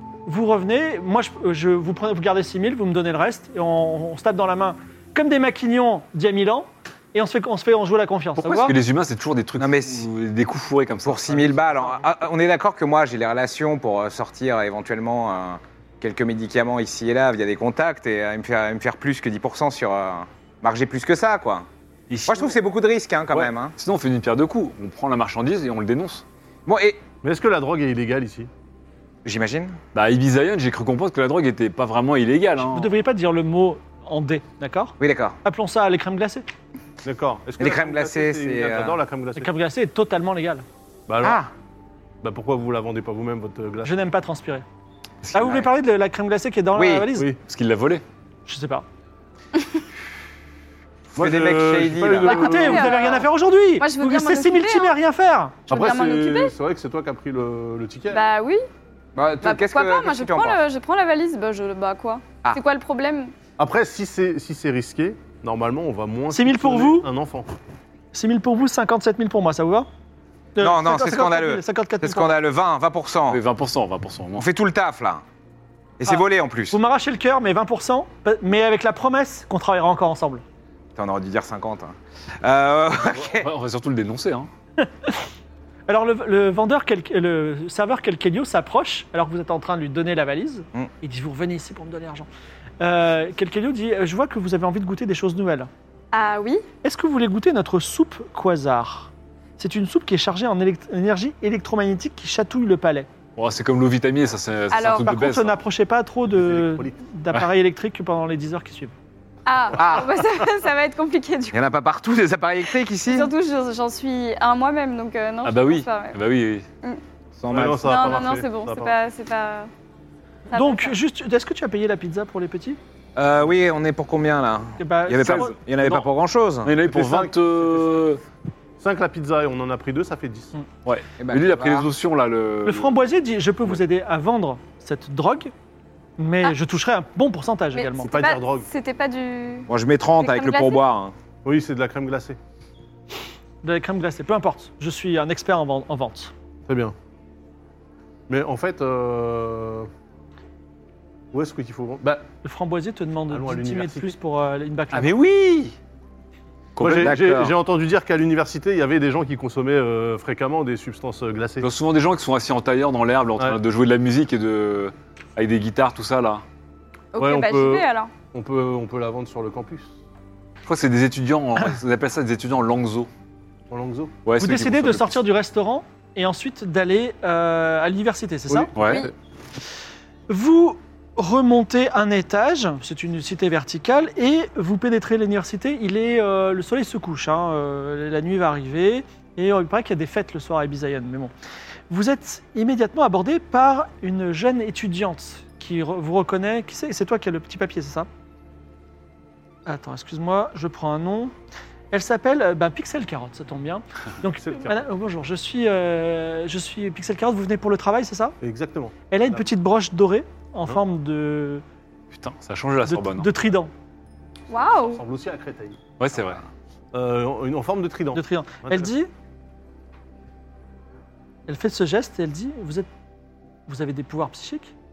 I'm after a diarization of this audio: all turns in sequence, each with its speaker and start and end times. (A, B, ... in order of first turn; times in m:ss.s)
0:00.3-0:08.8 A
0:08.4-0:11.5 B
0:09.6-0:10.1 C
0:11.0-0:21.6 C
0:22.1-0:22.5 B
0:22.3-0:23.7 C
0:23.3-0:26.2 B
0:26.6-0:27.0 C
0:27.2-0:28.5 D
0:29.2-0:29.8 C
0:29.9-0:32.9 B
0:32.7-0:36.4 A
0:35.0-0:35.4 C
0:37.0-0:39.5 D
0:37.6-0:39.0 C
0:39.4-0:40.6 A
0:41.1-0:41.4 D
0:41.2-0:41.5 C
0:42.2-0:44.0 D
0:43.8-0:44.6 A
0:45.2-0:45.7 B
0:45.3-0:47.3 A
0:46.7-0:47.1 C
0:47.4-0:48.0 B
0:48.5-0:48.8 A
0:51.1-0:53.0 D
0:51.2-0:52.9 C
0:52.2-0:55.0 E
0:52.3-0:55.7 A
0:55.7-0:56.5 E
0:55.7-0:58.2 D
0:58.1-0:58.6 E
0:59.2-1:00.6 C
0:59.4-1:03.3 E
1:03.6-1:07.5 D
1:06.3-1:07.1 A
1:08.1-1:09.9 A
1:10.6-1:12.4 A
1:10.6-1:13.4 C
1:13.3-1:14.4 B
1:14.4-1:15.2 C
1:16.0-1:16.8 C
1:16.0-1:20.4 A
1:21.0-1:23.5 C
1:23.2-1:24.5 B
1:24.8-1:25.2 A
1:25.9-1:32.3 A
1:32.8-1:35.7 A
1:36.1-1:36.6 E
1:36.8-1:43.1 A
1:43.4-1:45.6 B
1:44.7-1:45.1 E
1:45.0-1:48.9 A
1:46.3-1:47.0 D
1:49.4-1:51.6 E
1:49.8-1:50.2 C
1:51.5-1:53.3 C
1:53.0-1:56.2 E
1:55.4-1:56.6 B
1:57.4-1:58.3 C
1:57.5-1:58.9 D
1:57.8-1:59.7 E
2:00.5-2:01.0 E
2:00.5-2:02.8 A
2:03.2-2:06.8 C
2:04.8-2:05.6 A
2:05.2-2:06.1 B
2:06.6-2:08.2 B
2:06.8-2:08.0 D
2:08.8-2:10.5 D
2:10.8-2:12.9 B
2:11.2-2:11.9 C
2:12.6-2:15.5 A
2:16.2-2:18.1 A
2:17.7-2:20.8 E
2:18.0-2:18.7 D
2:19.7-2:21.1 C
2:21.4-2:22.4 D
2:23.6-2:26.3 A
2:26.7-2:27.0 D
2:28.3-2:29.9 D
2:31.3-2:32.3 D
2:32.4-2:35.1 A
2:33.3-2:34.1 D
2:34.9-2:35.8 C
2:36.8-2:37.2 B
2:36.8-2:41.7 D
2:36.9-2:37.6 C
2:41.6-2:46.4 B
2:47.1-2:48.1 E
2:47.2-2:49.9 D
2:50.6-2:53.1 B
2:53.7-2:54.2 D
2:54.2-2:55.2 B
2:54.4-2:58.7 A
2:58.5-2:59.1 D
2:58.8-2:59.0 B
2:58.8-2:59.1 E
3:00.3-3:11.3 A
3:11.9-3:18.1 A
3:19.6-3:21.3 A
3:21.9-3:28.4 A
3:24.4-3:24.8 D
3:28.4-3:29.4 D
3:29.1-3:31.6 A
3:32.1-3:33.3 B
3:32.9-3:33.7 A
3:34.5-3:35.0 E
3:34.8-3:35.9 D
3:36.0-3:36.4 B
3:36.9-3:38.9 D
3:38.1-3:39.1 A
3:41.5-3:42.9 A
3:43.7-3:44.7 A